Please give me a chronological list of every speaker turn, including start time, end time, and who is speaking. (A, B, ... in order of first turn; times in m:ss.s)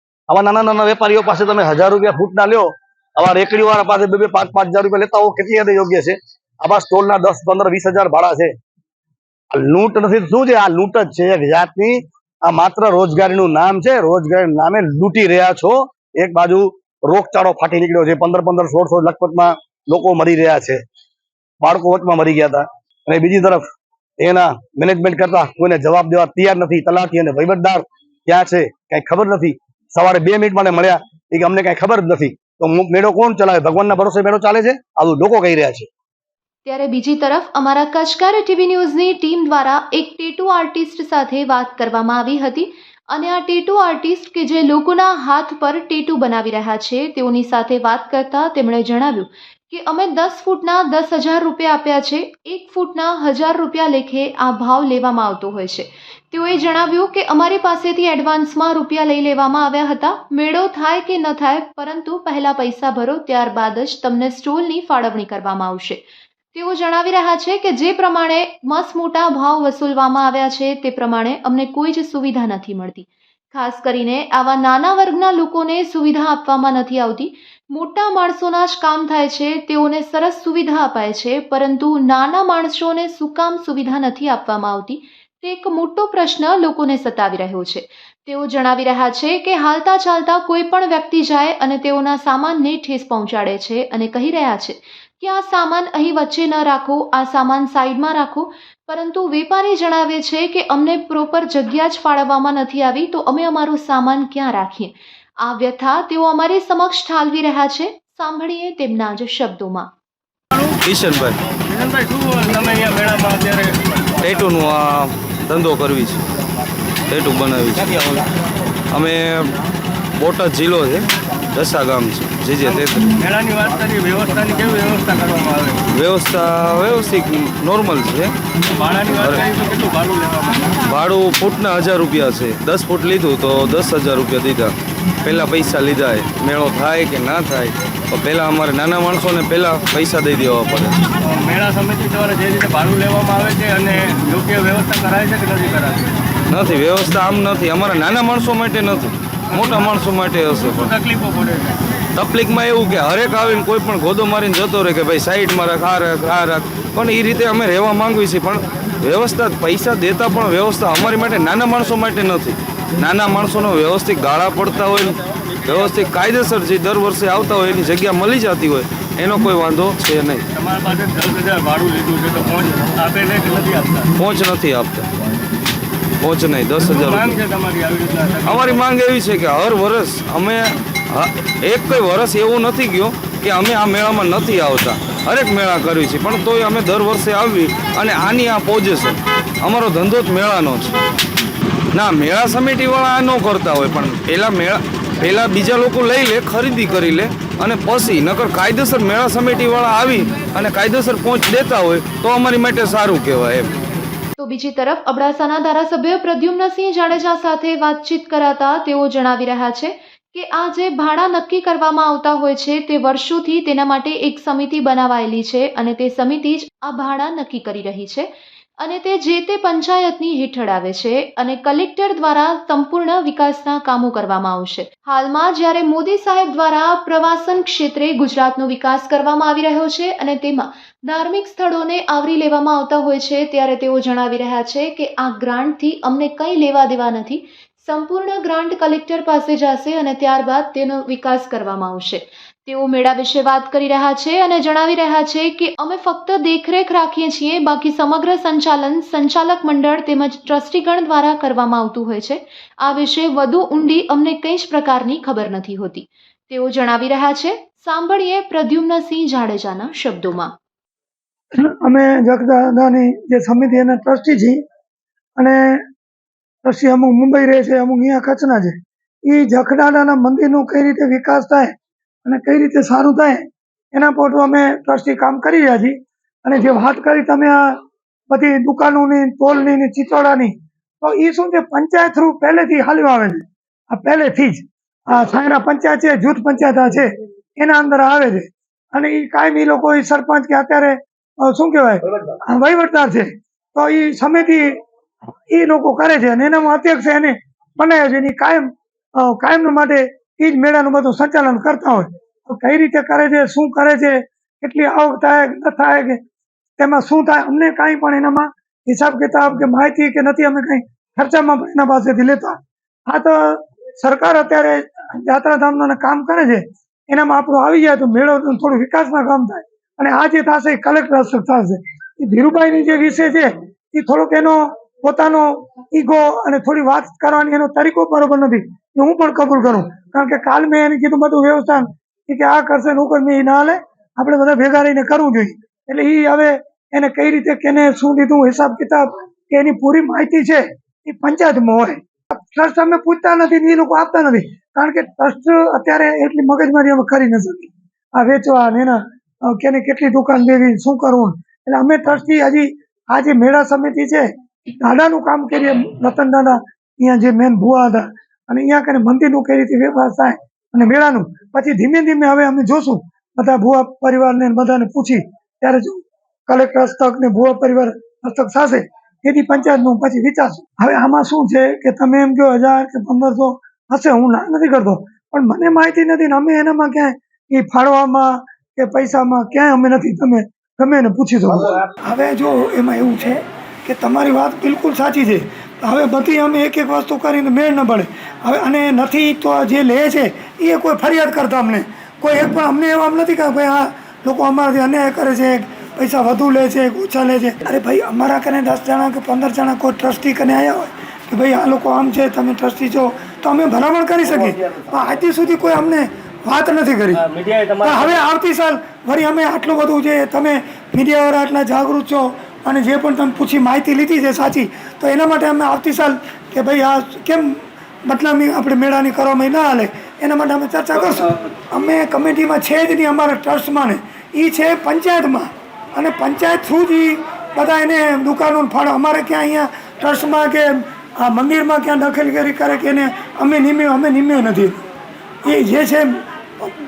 0:00.3-0:08.5 A
0:09.5-0:20.8 A
0:21.6-0:23.7 A
0:24.2-0:35.9 A
0:36.6-1:49.9 B
1:50.8-1:51.4 C
1:51.6-1:54.2 D
1:54.2-1:56.2 C
1:57.1-1:58.3 C
1:58.9-1:59.5 C
2:00.2-2:03.1 C
2:02.8-2:05.8 D
2:05.9-2:08.3 C
2:08.7-2:10.8 D
2:10.9-2:21.0 C
2:21.2-2:26.1 D
2:26.5-2:31.0 C
2:30.8-2:31.8 D
2:32.2-2:50.5 C
2:50.6-2:54.1 D
2:54.2-2:55.1 C
2:56.2-2:57.4 C
2:56.9-2:58.8 D
2:58.4-3:11.0 C
3:11.9-3:23.7 C
3:24.4-3:38.3 B
3:38.8-4:20.5 B
4:21.6-4:24.6 E
4:25.4-4:25.8 E
4:26.6-4:31.7 E
4:32.2-4:54.8 E
4:55.5-5:06.2 E
5:06.8-6:47.2 E
6:47.2-6:48.2 D
6:47.8-7:14.8 E
7:15.4-7:16.7 E